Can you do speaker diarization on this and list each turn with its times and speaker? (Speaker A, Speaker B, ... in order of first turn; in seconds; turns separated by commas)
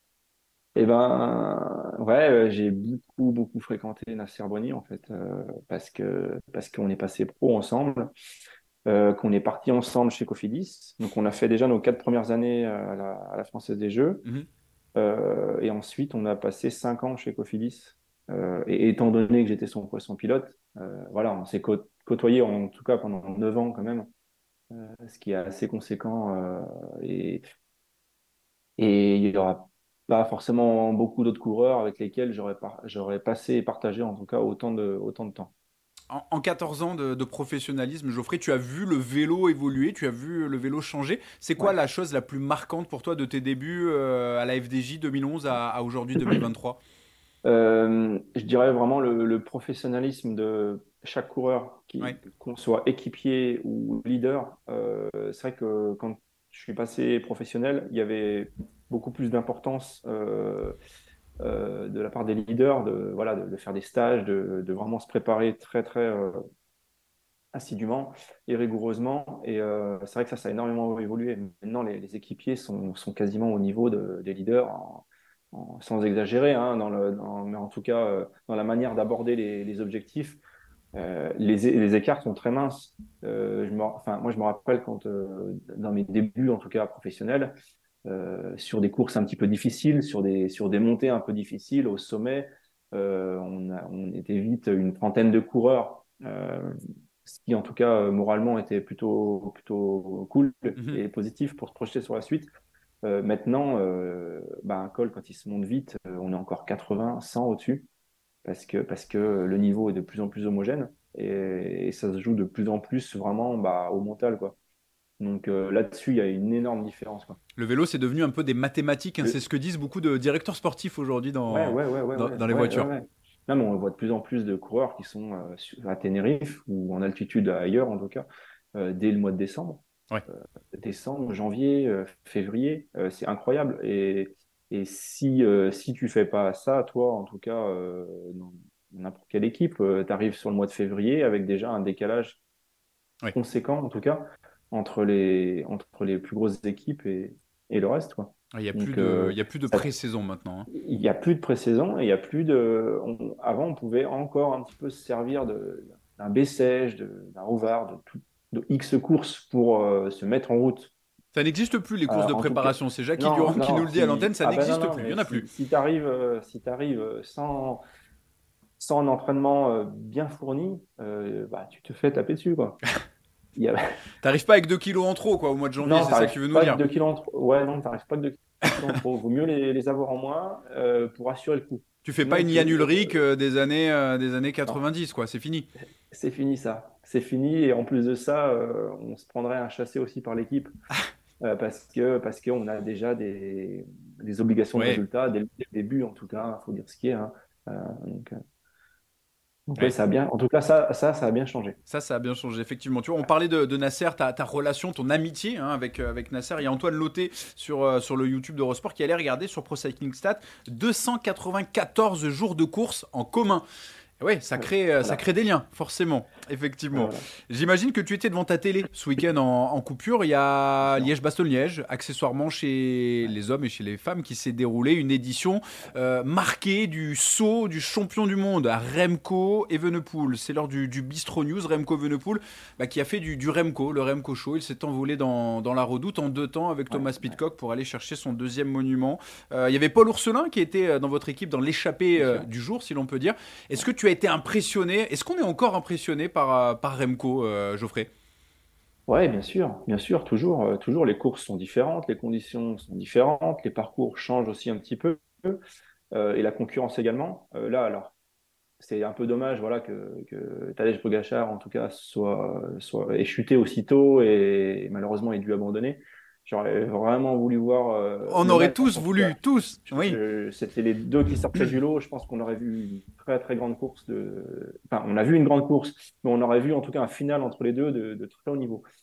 Speaker A: 0.8-8.1, Speaker A: 8.9-14.2, Speaker A: 15.0-24.1, Speaker A: 24.7-27.4, Speaker A: 28.8-35.5, Speaker B: 36.1-46.8, Speaker A: 47.5-60.8, Speaker A: 61.4-66.4, Speaker A: 67.5-80.4, Speaker A: 81.0-102.5, Speaker A: 103.0-107.9, Speaker A: 108.4-114.6, Speaker A: 115.2-117.4, Speaker B: 117.6-122.9, Speaker A: 121.5-142.4, Speaker A: 143.3-149.9, Speaker B: 148.5-150.7, Speaker A: 150.7-160.9, Speaker B: 161.3-165.5, Speaker A: 162.1-167.8, Speaker A: 168.8-172.8, Speaker A: 173.6-173.8, Speaker B: 174.2-176.8, Speaker A: 175.8-183.2, Speaker B: 182.1-185.7, Speaker A: 186.1-190.7, Speaker A: 191.4-198.4, Speaker B: 194.8-195.0, Speaker A: 199.7-201.8, Speaker B: 201.9-213.6, Speaker B: 214.2-248.1, Speaker A: 214.6-215.2, Speaker A: 216.9-217.2, Speaker A: 236.9-237.4, Speaker A: 242.2-242.5, Speaker A: 249.1-255.6, Speaker A: 256.1-258.1, Speaker A: 258.8-278.9, Speaker B: 268.3-270.2